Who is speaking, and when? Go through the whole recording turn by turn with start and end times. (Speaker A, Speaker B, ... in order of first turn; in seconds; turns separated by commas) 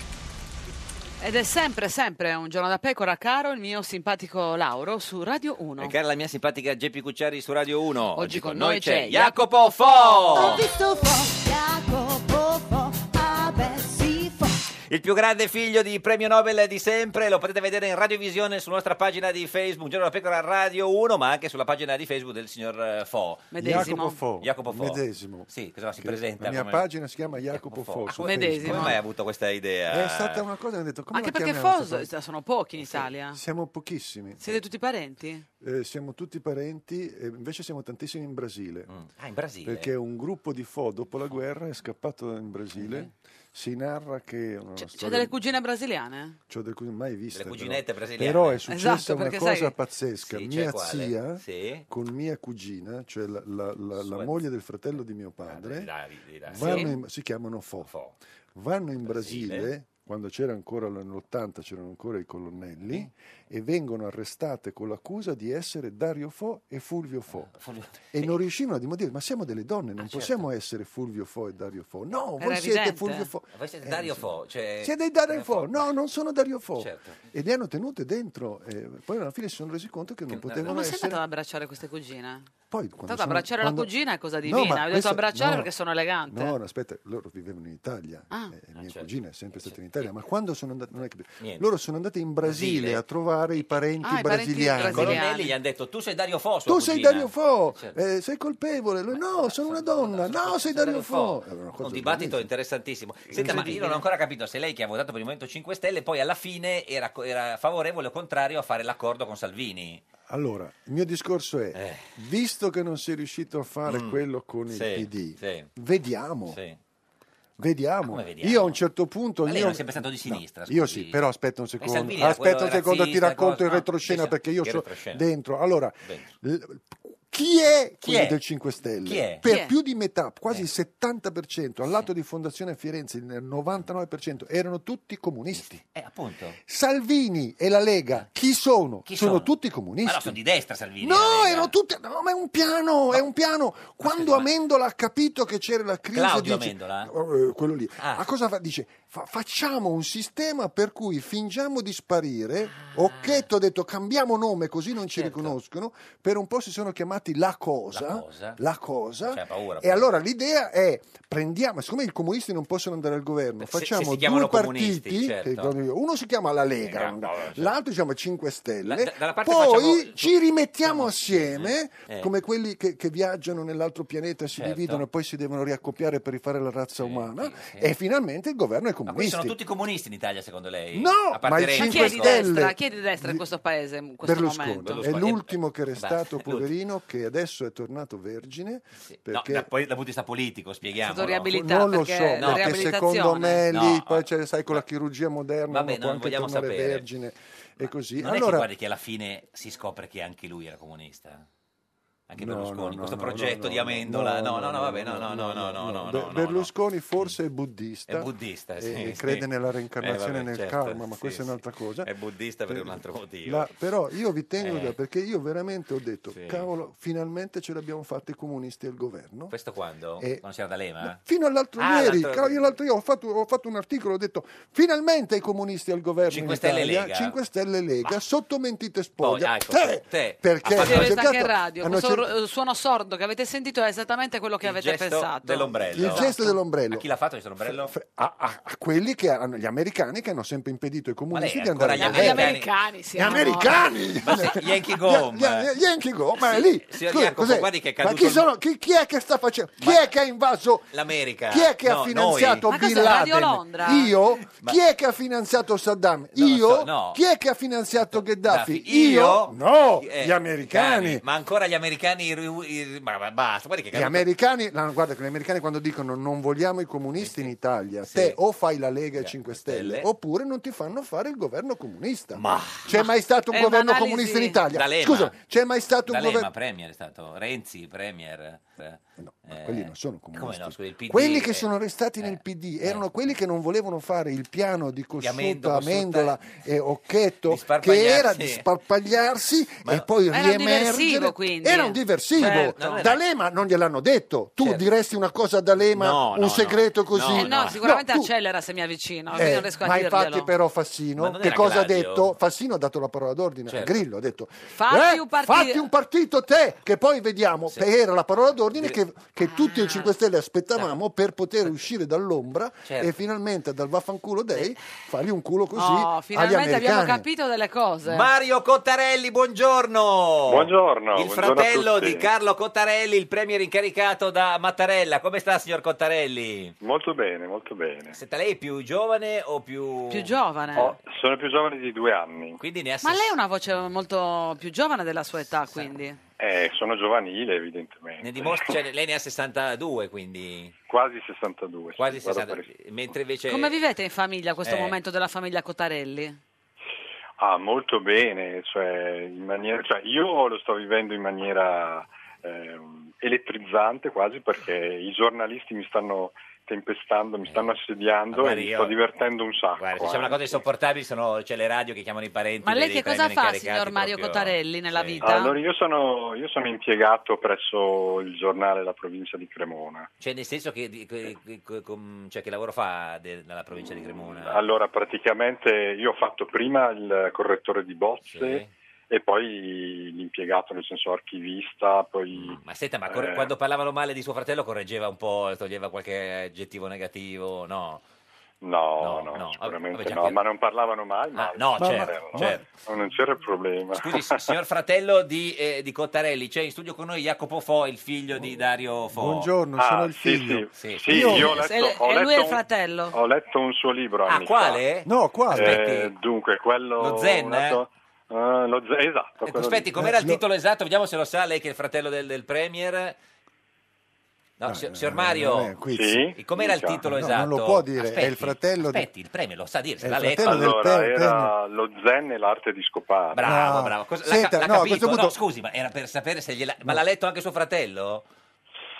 Speaker A: 1.2-5.9, Speaker B: 5.8-10.6, Speaker A: 8.2-10.6, Speaker C: 10.3-14.6, Speaker B: 14.9-26.8, Speaker A: 23.5-24.2, Speaker D: 23.6-25.5, Speaker D: 26.0-29.0, Speaker B: 27.5-30.4, Speaker A: 28.2-29.0, Speaker D: 29.9-32.1, Speaker A: 31.1-33.4, Speaker D: 32.8-34.6, Speaker A: 34.4-35.4, Speaker D: 35.6-38.9, Speaker B: 38.9-39.9, Speaker D: 39.6-45.4, Speaker B: 42.8-43.1, Speaker A: 44.8-46.4, Speaker D: 46.5-55.9, Speaker B: 47.3-48.6, Speaker A: 48.7-49.7, Speaker B: 50.2-51.9, Speaker B: 54.0-54.4, Speaker B: 55.5-57.0, Speaker D: 56.5-57.9, Speaker A: 56.6-56.9, Speaker B: 57.9-58.1, Speaker D: 58.5-67.5, Speaker B: 59.0-59.7, Speaker B: 67.3-68.3, Speaker D: 68.1-74.3, Speaker B: 70.0-70.4, Speaker A: 72.4-73.3, Speaker B: 73.5-75.9, Speaker D: 74.8-81.2, Speaker B: 76.8-77.2, Speaker B: 80.3-80.7, Speaker A: 80.7-82.5, Speaker D: 82.7-83.9, Speaker A: 83.1-86.5, Speaker D: 84.4-85.7, Speaker D: 86.3-95.2, Speaker B: 88.8-90.1, Speaker B: 91.4-91.6, Speaker B: 92.4-93.0, Speaker A: 94.0-95.5, Speaker B: 94.8-98.0, Speaker D: 96.7-102.5, Speaker B: 99.1-110.0, Speaker D: 103.3-104.0, Speaker A: 103.4-104.0, Speaker D: 110.3-116.6, Speaker B: 111.7-112.1, Speaker B: 113.9-115.7, Speaker B: 116.5-116.8, Speaker D: 117.6-135.8, Speaker B: 118.0-118.8, Speaker B: 119.4-121.2, Speaker B: 121.8-125.2, Speaker B: 128.0-128.4, Speaker B: 129.0-129.4, Speaker A: 129.4-129.7, Speaker B: 135.8-136.6, Speaker D: 136.7-140.4, Speaker B: 139.1-139.5, Speaker B: 140.0-141.7, Speaker D: 141.0-179.6, Speaker B: 144.0-144.5, Speaker B: 146.1-147.1, Speaker B: 148.0-148.2, Speaker B: 152.8-153.5, Speaker B: 155.1-155.6, Speaker B: 157.9-158.6, Speaker B: 159.2-160.1, Speaker B: 163.6-165.7, Speaker B: 166.8-167.7, Speaker B: 168.8-172.3, Speaker B: 174.5-175.0, Speaker B: 177.0-177.9, Speaker B: 179.1-182.4, Speaker D: 180.9-183.4, Speaker A: 181.8-185.0, Speaker D: 184.2-189.7, Speaker B: 184.8-186.7, Speaker B: 189.1-191.5, Speaker A: 191.0-193.6, Speaker D: 191.3-198.7, Speaker B: 192.4-192.9, Speaker B: 193.7-194.8, Speaker B: 195.7-197.1, Speaker B: 197.8-201.4, Speaker B: 202.3-207.3, Speaker D: 202.4-212.1, Speaker B: 208.1-209.4, Speaker B: 210.0-213.7, Speaker D: 212.7-219.5, Speaker B: 214.6-214.9, Speaker B: 216.3-216.7, Speaker B: 219.5-221.2, Speaker D: 221.0-232.3, Speaker B: 221.8-222.7, Speaker B: 226.3-227.4, Speaker B: 229.2-231.3, Speaker A: 230.8-236.6, Speaker B: 234.6-236.3, Speaker D: 235.9-237.1, Speaker B: 236.9-237.9, Speaker D: 237.6-242.6, Speaker B: 241.3-242.7, Speaker A: 242.0-243.9, Speaker D: 243.1-261.2, Speaker B: 244.2-245.7, Speaker B: 246.4-248.4, Speaker B: 249.8-250.1, Speaker B: 250.9-252.7, Speaker A: 252.7-254.1, Speaker B: 254.5-254.8, Speaker B: 256.4-257.2, Speaker B: 258.1-264.3, Speaker D: 263.9-276.5, Speaker B: 267.2-267.5, Speaker B: 268.0-268.4, Speaker B: 269.2-270.1, Speaker B: 272.3-272.9, Speaker A: 272.9-274.6, Speaker B: 274.7-275.3, Speaker B: 276.1-281.7, Speaker D: 279.2-298.3, Speaker B: 282.2-283.1, Speaker B: 285.2-286.4, Speaker B: 287.5-288.6, Speaker A: 290.3-293.1, Speaker B: 292.4-293.2, Speaker B: 294.6-294.8, Speaker B: 295.9-297.8, Speaker A: 297.3-300.5, Speaker D: 299.3-317.2, Speaker B: 301.2-302.3, Speaker B: 303.7-304.0, Speaker A: 304.7-305.9, Speaker A: 309.5-310.1, Speaker B: 312.9-313.2, Speaker A: 315.7-318.3, Speaker B: 318.0-326.7, Speaker E: 320.5-322.3, Speaker E: 326.8-328.2, Speaker B: 328.1-331.0, Speaker A: 330.1-330.9, Speaker E: 330.8-332.6, Speaker B: 332.6-333.4, Speaker A: 333.0-336.2, Speaker E: 336.4-338.8, Speaker B: 338.2-340.7, Speaker E: 340.9-342.7, Speaker B: 341.9-343.8, Speaker A: 343.5-346.4, Speaker B: 344.6-344.9, Speaker E: 347.4-360.6, Speaker B: 357.4-357.8, Speaker B: 358.3-358.9, Speaker B: 359.8-365.3, Speaker A: 362.6-365.6, Speaker E: 365.2-370.1, Speaker B: 370.2-374.6, Speaker E: 374.4-383.5, Speaker B: 378.3-378.7, Speaker B: 382.3-388.0, Speaker E: 388.6-394.5, Speaker B: 389.0-390.4, Speaker B: 391.3-392.7, Speaker D: 391.8-392.6, Speaker B: 393.9-399.5, Speaker D: 399.1-401.6, Speaker E: 399.8-404.8, Speaker B: 400.8-401.7, Speaker A: 401.5-403.1, Speaker B: 404.2-406.1, Speaker D: 405.0-405.8, Speaker E: 405.5-409.9, Speaker B: 407.0-407.8, Speaker B: 409.4-413.2, Speaker D: 409.9-410.4, Speaker B: 414.6-415.8, Speaker D: 414.6-416.3, Speaker E: 415.9-417.0, Speaker B: 416.4-420.8, Speaker D: 417.0-419.1, Speaker D: 420.0-421.5, Speaker E: 420.4-423.5, Speaker B: 423.3-428.2, Speaker D: 423.4-425.4